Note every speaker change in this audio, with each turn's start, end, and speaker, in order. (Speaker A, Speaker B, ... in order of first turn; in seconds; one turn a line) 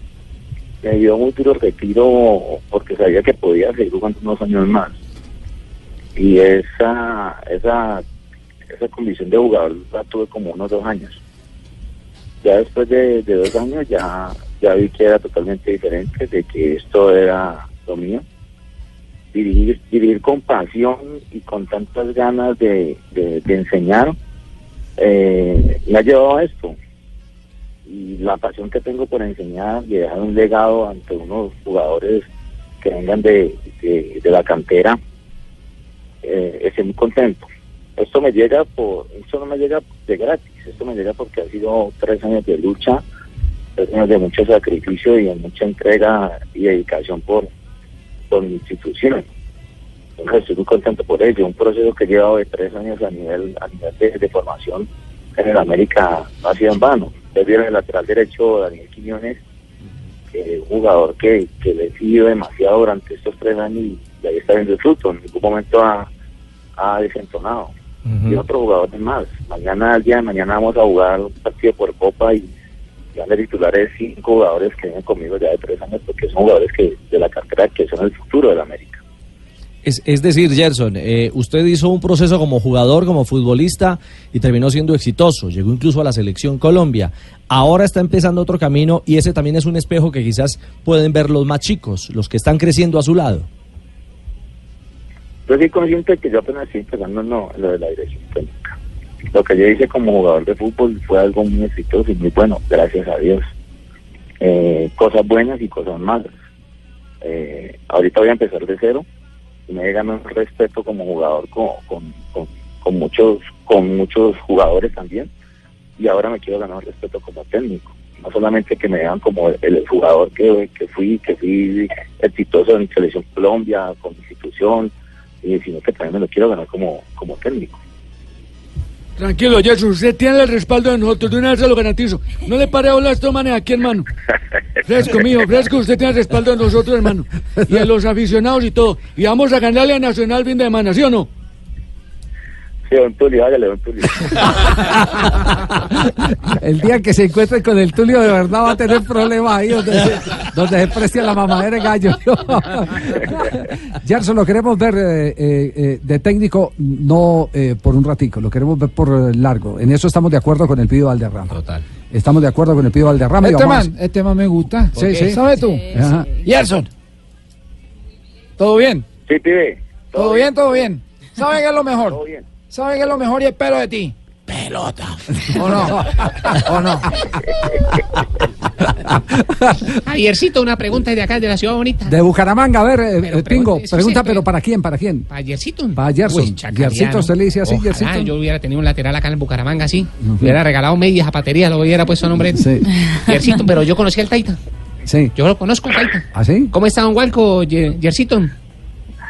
Speaker A: 0.8-4.9
Speaker A: 6.2-8.0
Speaker A: 8.7-11.2
Speaker A: 12.4-18.2
Speaker A: 19.3-24.1
Speaker A: 25.0-26.8
Speaker A: 27.9-32.3
Speaker A: 32.8-35.0
Speaker A: 36.2-37.5
Speaker A: 38.0-43.0
Speaker A: 43.8-47.5
Speaker A: 48.3-49.2
Speaker A: 50.2-59.4
Speaker A: 60.3-66.1
Speaker A: 66.8-67.7
Speaker B: 68.1-68.4
Speaker A: 68.2-72.5
Speaker A: 73.1-79.0
Speaker B: 79.8-93.5
Speaker A: 95.5-98.8
Speaker A: 99.3-103.4
Speaker A: 104.4-106.3
Speaker A: 107.2-109.0
Speaker A: 109.7-115.3
Speaker A: 116.0-127.8
Speaker C: 129.2-134.1
Speaker C: 134.8-141.3
Speaker A: 142.9-144.7
Speaker D: 144.8-161.5
Speaker D: 162.1-163.9
Speaker E: 163.4-165.9
Speaker D: 164.9-166.4
Speaker E: 166.4-166.9
Speaker E: 168.6-169.1
Speaker A: 169.3-170.9
Speaker E: 170.2-172.2
Speaker A: 171.9-172.5
Speaker E: 172.7-174.1
Speaker E: 174.7-175.0
Speaker E: 175.5-176.0
Speaker D: 175.6-177.3
Speaker E: 176.5-177.0
Speaker D: 178.8-179.9
Speaker F: 180.0-182.1
Speaker D: 182.1-185.3
Speaker F: 183.2-184.4
Speaker F: 185.3-192.6
Speaker D: 185.9-188.3
Speaker D: 190.2-190.6
Speaker D: 192.5-192.8
Speaker F: 193.2-194.6
Speaker D: 195.1-195.3
Speaker F: 195.3-198.5
Speaker D: 196.3-196.7